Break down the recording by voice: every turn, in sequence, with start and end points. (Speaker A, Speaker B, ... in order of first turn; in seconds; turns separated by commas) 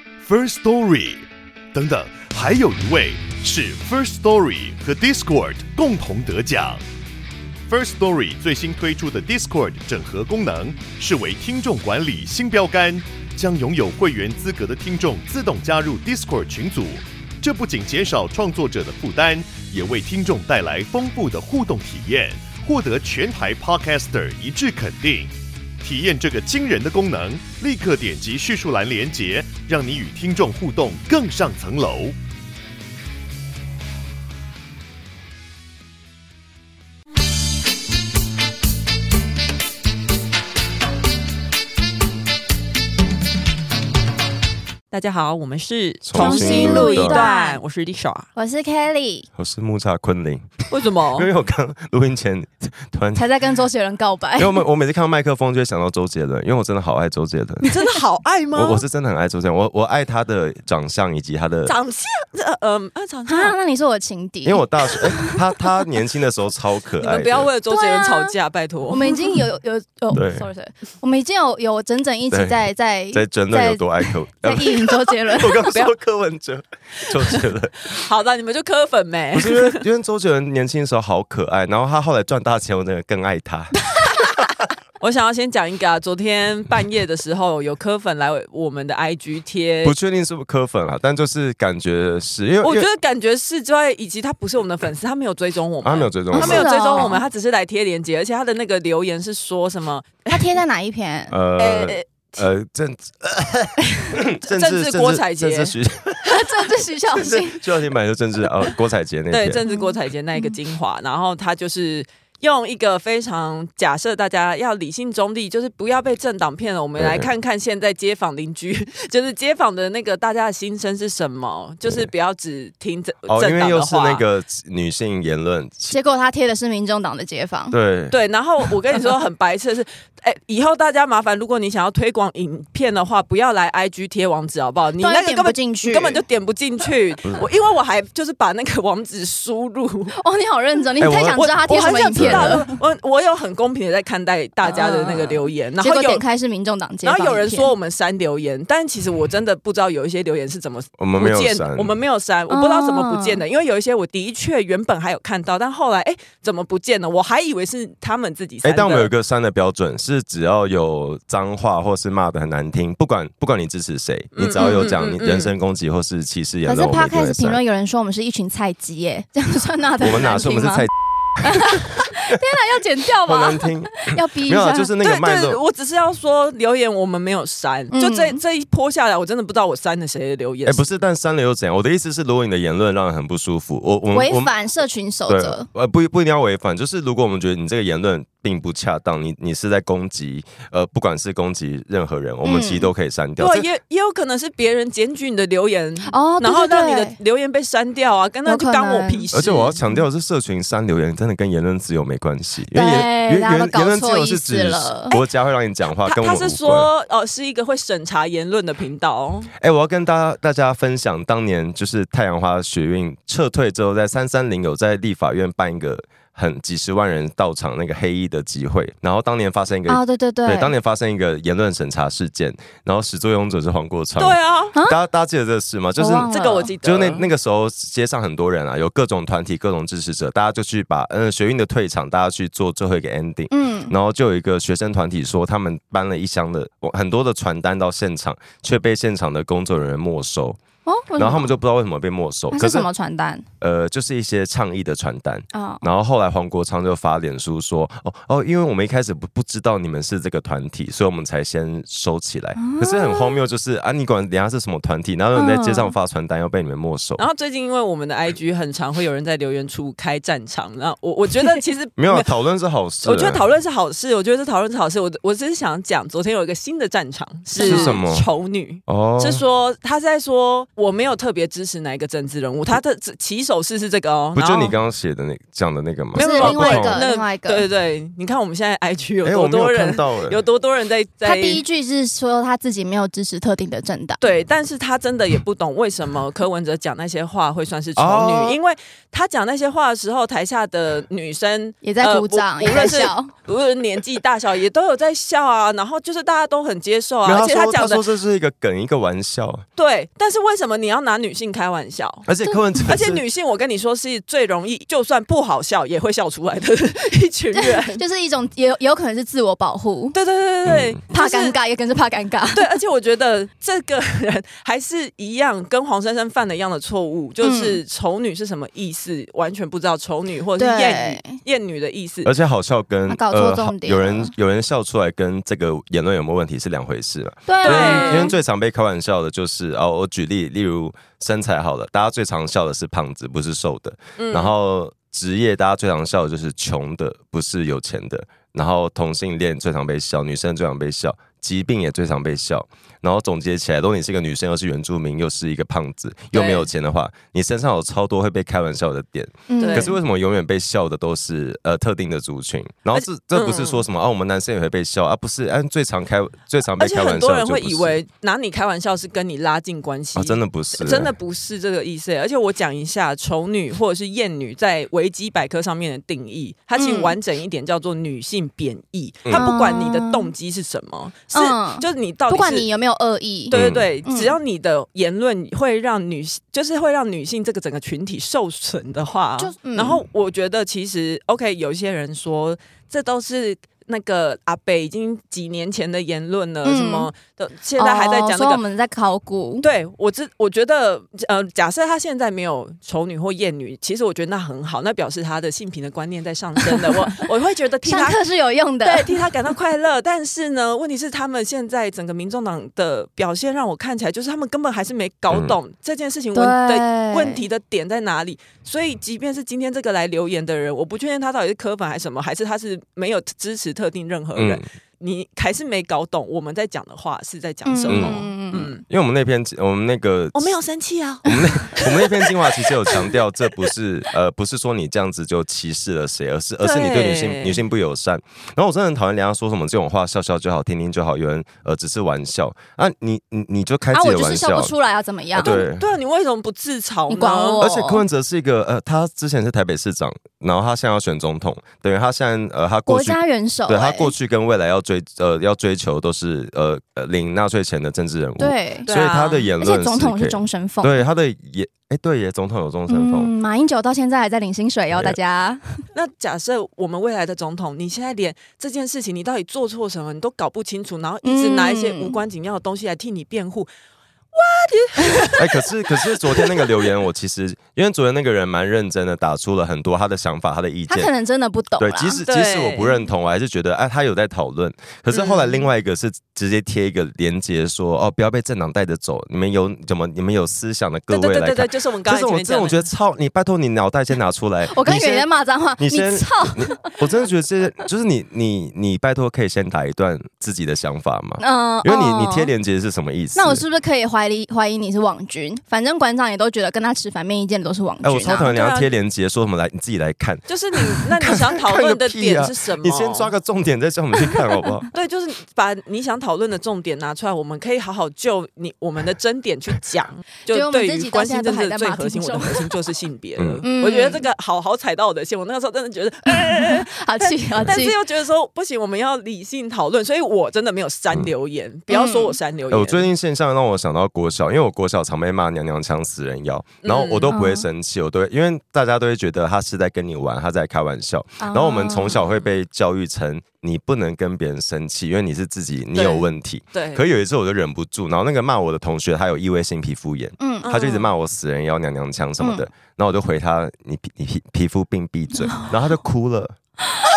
Speaker A: 0.2-6.8, Speaker A: 7.7-32.1, Speaker B: 44.9-48.3, Speaker C: 46.0-47.3, Speaker D: 46.1-47.6, Speaker D: 48.3-49.3, Speaker C: 49.4-53.2, Speaker B: 50.7-51.3, Speaker D: 53.1-54.6, Speaker C: 54.4-57.7, Speaker B: 57.6-58.8, Speaker C: 58.5-61.7, Speaker B: 61.6-63.5, Speaker D: 63.3-65.4, Speaker C: 64.4-67.5, Speaker B: 67.0-69.2, Speaker D: 67.7-68.3, Speaker D: 68.9-75.7, Speaker C: 70.1-70.5, Speaker C: 72.3-72.6, Speaker C: 73.1-77.9, Speaker B: 75.7-75.9, Speaker B: 77.1-79.8, Speaker C: 79.3-84.5, Speaker B: 85.0-89.9, Speaker C: 89.8-92.9, Speaker B: 92.6-100.5, Speaker C: 95.8-97.1, Speaker D: 96.3-97.2, Speaker D: 100.3-101.3, Speaker C: 101.3-109.6, Speaker B: 101.6-102.5, Speaker B: 104.4-105.7, Speaker D: 106.2-107.6, Speaker B: 109.3-124.2, Speaker D: 109.7-110.5, Speaker C: 117.0-117.3, Speaker C: 123.3-126.0, Speaker D: 125.9-127.8, Speaker C: 127.7-128.2, Speaker B: 128.1-140.2, Speaker D: 135.0-136.2, Speaker D: 140.2-142.7, Speaker C: 141.0-142.6, Speaker B: 141.4-146.2, Speaker D: 144.6-147.7, Speaker B: 147.0-159.1, Speaker C: 151.0-152.0, Speaker D: 152.5-153.4, Speaker C: 158.6-167.6, Speaker B: 164.3-165.5, Speaker D: 164.6-164.9, Speaker D: 166.6-170.9, Speaker C: 170.0-172.0, Speaker D: 171.4-174.9, Speaker C: 173.2-175.6, Speaker B: 175.0-180.8, Speaker D: 177.9-178.4, Speaker C: 180.6-184.5, Speaker D: 184.1-185.7, Speaker C: 185.3-193.7, Speaker D: 192.4-192.9, Speaker B: 193.4-199.8, Speaker D: 196.1-197.2, Speaker D: 198.4-199.2, Speaker C: 199.3-206.9, Speaker D: 202.7-205.1, Speaker B: 206.0-209.5, Speaker C: 209.6-226.3, Speaker D: 219.9-220.7, Speaker B: 224.2-224.7, Speaker D: 226.0-226.7, Speaker B: 226.3-227.3, Speaker C: 226.8-240.6, Speaker D: 233.5-233.9, Speaker D: 240.8-241.6, Speaker C: 241.2-242.9, Speaker D: 242.5-243.4, Speaker C: 243.6-257.2, Speaker D: 245.5-245.8, Speaker D: 252.6-253.4, Speaker D: 255.3-255.9, Speaker B: 257.2-262.3, Speaker C: 262.0-263.4, Speaker B: 263.0-274.7, Speaker D: 267.6-268.0, Speaker C: 267.6-268.2, Speaker C: 268.9-269.4, Speaker C: 274.3-277.0, Speaker D: 276.1-277.6, Speaker B: 276.1-281.6, Speaker C: 279.2-280.4, Speaker D: 281.2-284.2, Speaker B: 284.2-298.0, Speaker C: 287.9-288.6, Speaker D: 291.8-293.3, Speaker C: 297.2-299.6, Speaker B: 299.8-302.3, Speaker C: 302.3-303.2, Speaker B: 302.8-308.0, Speaker D: 307.5-310.2, Speaker B: 310.1-311.6, Speaker C: 310.6-311.0, Speaker D: 311.1-312.7, Speaker B: 312.5-322.3, Speaker D: 317.4-317.8, Speaker D: 320.6-321.4, Speaker C: 322.2-358.0, Speaker D: 323.1-324.3, Speaker D: 327.5-328.3, Speaker B: 327.6-328.3, Speaker B: 334.2-334.5, Speaker B: 346.3-346.7, Speaker D: 349.5-349.9, Speaker B: 349.6-349.9, Speaker B: 352.9-353.8, Speaker B: 356.8-372.7, Speaker C: 360.1-361.1, Speaker D: 366.8-367.2, Speaker C: 369.2-369.5, Speaker D: 369.3-370.3, Speaker D: 371.3-374.3, Speaker B: 373.5-388.6, Speaker C: 373.5-373.9, Speaker D: 379.4-380.0, Speaker D: 386.6-387.1, Speaker D: 387.8-389.7, Speaker B: 389.6-398.2, Speaker D: 397.9-399.2, Speaker B: 398.8-418.8, Speaker C: 405.3-405.5, Speaker D: 406.3-407.4, Speaker C: 414.3-414.6, Speaker D: 417.6-418.7, Speaker C: 417.9-418.2, Speaker C: 418.9-420.6, Speaker B: 420.3-423.1, Speaker C: 421.2-434.7, Speaker B: 426.6-427.6, Speaker D: 433.9-435.6, Speaker C: 435.3-435.9, Speaker B: 435.4-437.6, Speaker D: 437.1-438.0, Speaker C: 437.6-453.3, Speaker D: 442.9-444.1, Speaker D: 448.4-448.9, Speaker B: 448.9-449.5, Speaker D: 449.6-451.0, Speaker D: 452.9-455.8, Speaker B: 455.9-463.7, Speaker D: 461.2-462.2, Speaker B: 464.3-466.9, Speaker C: 465.4-471.1, Speaker D: 470.9-472.2, Speaker C: 471.8-485.3, Speaker B: 472.3-473.0, Speaker B: 475.1-475.6, Speaker B: 481.1-482.8, Speaker D: 484.7-486.9, Speaker C: 485.8-493.6, Speaker D: 491.4-492.5, Speaker D: 493.3-498.4, Speaker C: 498.0-504.9, Speaker B: 498.2-498.9, Speaker B: 500.5-503.3, Speaker B: 504.9-523.1, Speaker D: 510.5-512.7, Speaker C: 513.4-513.6, Speaker D: 513.6-514.2, Speaker D: 516.3-518.0, Speaker D: 521.9-522.4, Speaker C: 522.7-546.5, Speaker B: 526.8-527.3, Speaker D: 527.3-527.6, Speaker D: 531.4-532.2, Speaker B: 535.9-537.0, Speaker D: 540.4-540.7, Speaker B: 540.6-541.1, Speaker D: 542.4-542.6, Speaker D: 545.4-545.7